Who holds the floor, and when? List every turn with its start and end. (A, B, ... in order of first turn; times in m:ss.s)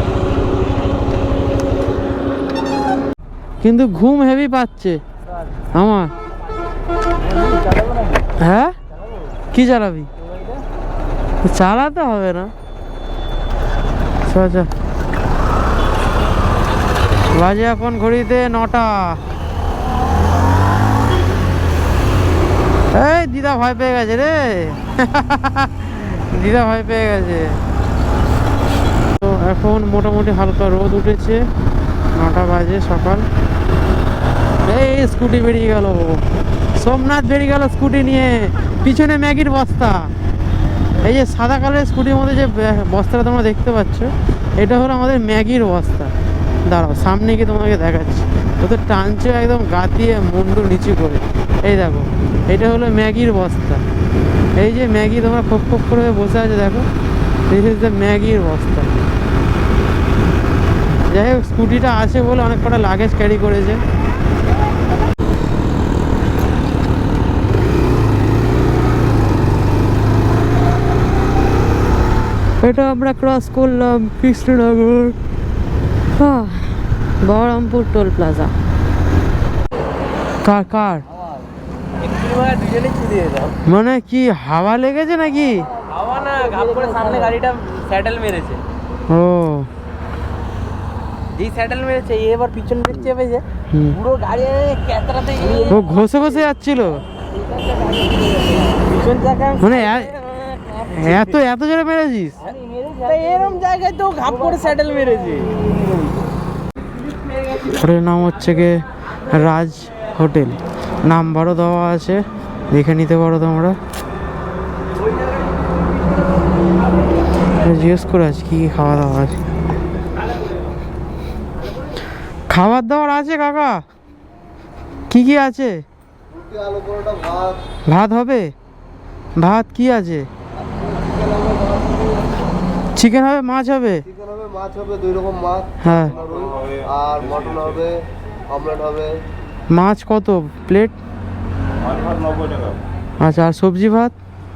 0:03.6-0:05.0 A
0:05.7-0:06.1 A
0:07.3-0:08.3 B
0:08.4-0:08.8 A
0:09.5-0:10.1 A
0:11.4-0:12.5 A
0:14.2-0:14.7 A
0:17.3-0:19.2 A
0:22.9-0:27.6 A
0:29.2-0:31.4 A
0:32.1-0:33.3 A
0:34.6-0:36.2 A
0:36.8-0:40.1 A
0:41.0-0:46.1 A
0:46.6-0:53.8 A
0:54.6-0:56.9 A
0:57.5-0:59.0 A
1:01.1-1:03.8 A
1:12.6-1:15.2 A
1:16.2-1:18.5 A
1:20.4-1:21.0 A
1:22.0-1:23.6 B
1:23.6-1:25.7 A
1:25.9-1:28.6 B
1:29.1-1:29.7 A
1:31.4-1:33.4 B
1:33.7-1:34.0 A
1:34.0-1:35.7 B
1:35.6-1:37.0 A
1:37.6-1:40.8 B
1:39.6-1:40.2 A
1:40.8-1:42.4 A
1:42.5-1:46.2 B
1:47.6-1:53.8 A
1:57.5-1:59.4 A
2:02.5-2:03.8 A
2:05.1-2:05.8 A
2:06.7-2:07.4 C
2:07.9-2:08.5 A
2:09.4-2:10.3 A
2:11.2-2:12.0 C
2:13.0-2:14.1 A
2:14.6-2:15.6 C
2:15.8-2:16.3 A
2:16.4-2:17.9 C
2:18.6-2:19.1 C
2:19.7-2:21.0 A
2:23.2-2:24.1 A